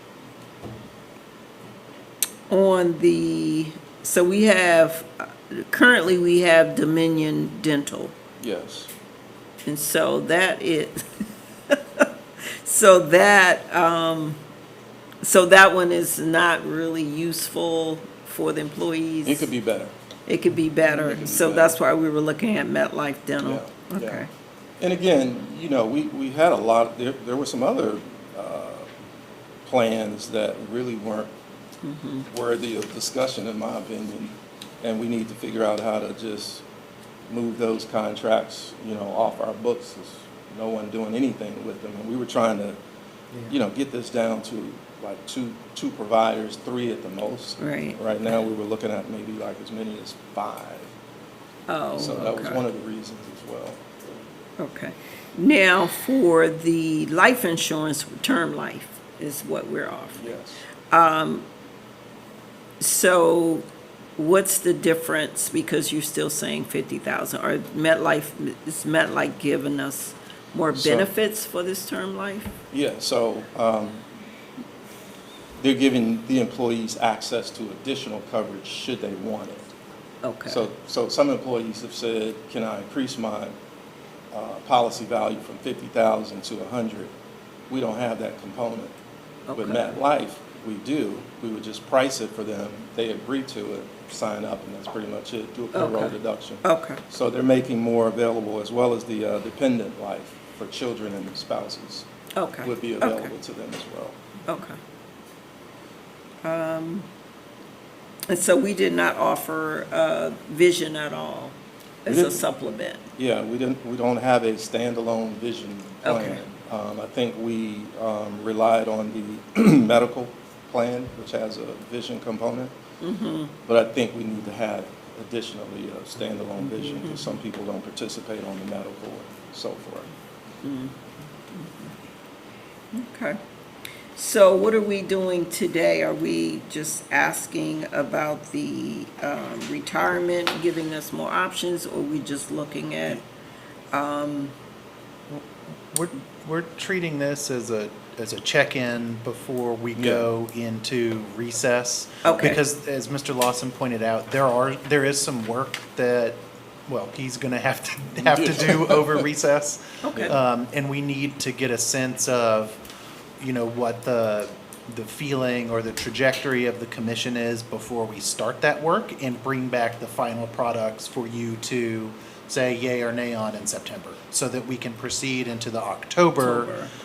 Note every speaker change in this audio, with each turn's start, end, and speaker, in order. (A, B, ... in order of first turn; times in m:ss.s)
0:02.5-0:08.1 A
0:08.4-0:08.9 B
0:09.6-0:14.4 A
0:15.2-0:19.5 A
0:19.2-0:19.9 B
0:20.3-0:24.3 A
0:20.8-0:21.8 B
0:23.4-0:24.2 B
0:24.8-0:28.9 B
0:29.7-0:31.3 B
0:31.8-0:32.3 A
0:32.3-0:36.6 B
0:37.3-0:42.8 B
0:43.5-0:50.9 B
0:47.6-0:48.0 A
0:51.7-0:52.6 A
0:52.0-0:53.9 B
0:54.6-1:00.3 A
1:00.2-1:00.6 B
1:00.9-1:01.4 A
1:02.8-1:03.7 A
1:04.2-1:12.5 A
1:10.7-1:11.1 B
1:12.7-1:14.0 B
1:15.6-1:19.7 B
1:20.2-1:20.7 A
1:20.4-1:23.6 B
1:24.3-1:27.1 B
1:27.7-1:29.0 B
1:29.5-1:30.0 A
1:29.5-1:42.0 B
1:35.7-1:37.0 A
1:42.3-1:43.3 A
1:42.6-1:44.2 B
1:44.5-1:44.8 A
1:46.4-1:47.0 A
1:48.3-1:53.0 A
1:52.1-1:52.4 B
1:53.2-2:02.7 B
1:56.0-1:56.4 A
2:03.0-2:03.5 A
2:03.7-2:10.1 B
2:10.6-2:11.0 A
2:11.5-2:11.9 A
2:12.9-2:13.4 A
2:14.1-2:23.2 A
2:23.9-2:24.5 A
2:25.3-2:42.8 C
2:30.0-2:30.3 B
2:32.2-2:32.6 A
2:38.4-2:39.0 B
2:40.0-2:40.4 A
2:40.1-2:40.4 B
2:43.4-2:56.8 C
2:56.4-2:56.9 A